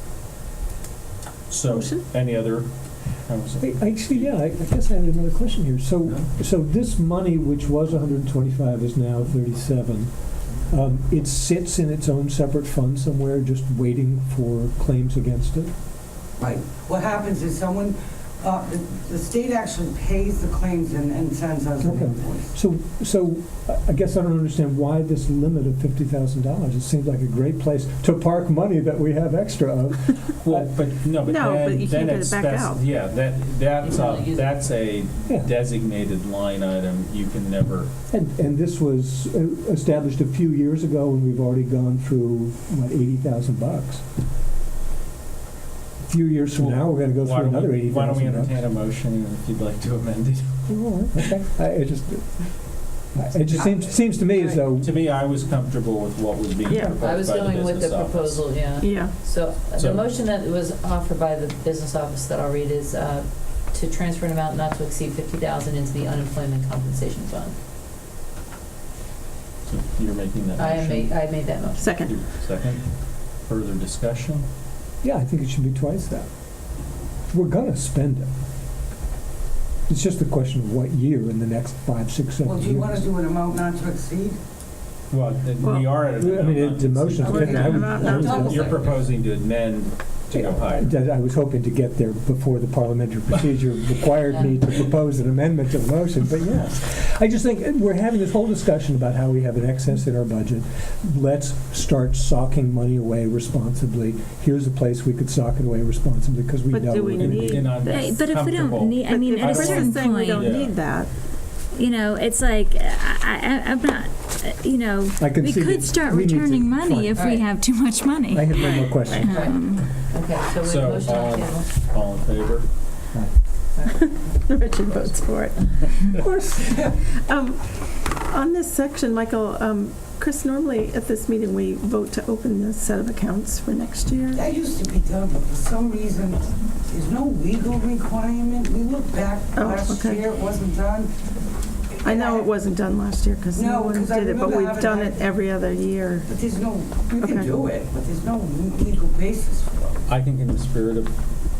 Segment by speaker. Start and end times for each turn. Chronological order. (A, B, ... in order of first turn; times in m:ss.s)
0:01.5-0:04.3 A
0:01.7-0:02.0 B
0:03.6-0:15.7 C
0:06.0-0:06.3 A
0:16.4-0:22.5 D
0:21.8-0:30.7 C
0:30.4-0:37.9 A
0:31.2-0:32.8 B
0:33.8-0:34.5 E
0:35.3-0:35.5 C
0:38.1-0:44.0 C
0:46.1-0:48.6 C
0:46.5-0:50.5 A
0:50.7-0:55.0 C
0:53.5-0:54.6 D
0:54.5-0:58.5 A
0:56.6-0:57.0 B
0:56.9-1:07.5 E
0:58.8-0:59.1 B
0:59.8-1:00.0 A
1:09.6-1:11.2 A
1:10.6-1:12.1 E
1:11.8-1:12.1 B
1:12.0-1:14.4 A
1:15.0-1:16.3 C
1:17.3-1:18.3 C
1:19.9-1:23.1 C
1:22.4-1:24.4 D
1:25.1-1:30.9 A
1:25.6-1:25.9 B
1:26.0-1:28.7 C
1:27.2-1:29.1 D
1:27.2-1:28.7 B
1:30.3-1:47.8 C
1:34.3-1:34.5 E
1:46.7-1:48.0 B
1:47.2-1:50.8 A
1:47.8-1:50.7 F
1:49.0-1:51.1 B
1:51.7-1:59.9 F
1:55.2-1:57.2 C
1:57.2-1:57.4 E
1:58.3-1:59.5 C
1:59.1-2:01.7 E
2:00.6-2:02.6 A
2:03.8-2:04.6 E
2:04.5-2:14.4 B
2:05.6-2:05.9 E
2:06.7-2:06.9 D
2:14.3-2:21.1 D
2:19.5-2:20.2 B
2:21.9-2:22.5 D
2:22.0-2:26.3 B
2:23.5-2:25.3 D
2:26.2-2:30.0 D
2:27.1-2:27.5 B
2:30.1-2:31.1 A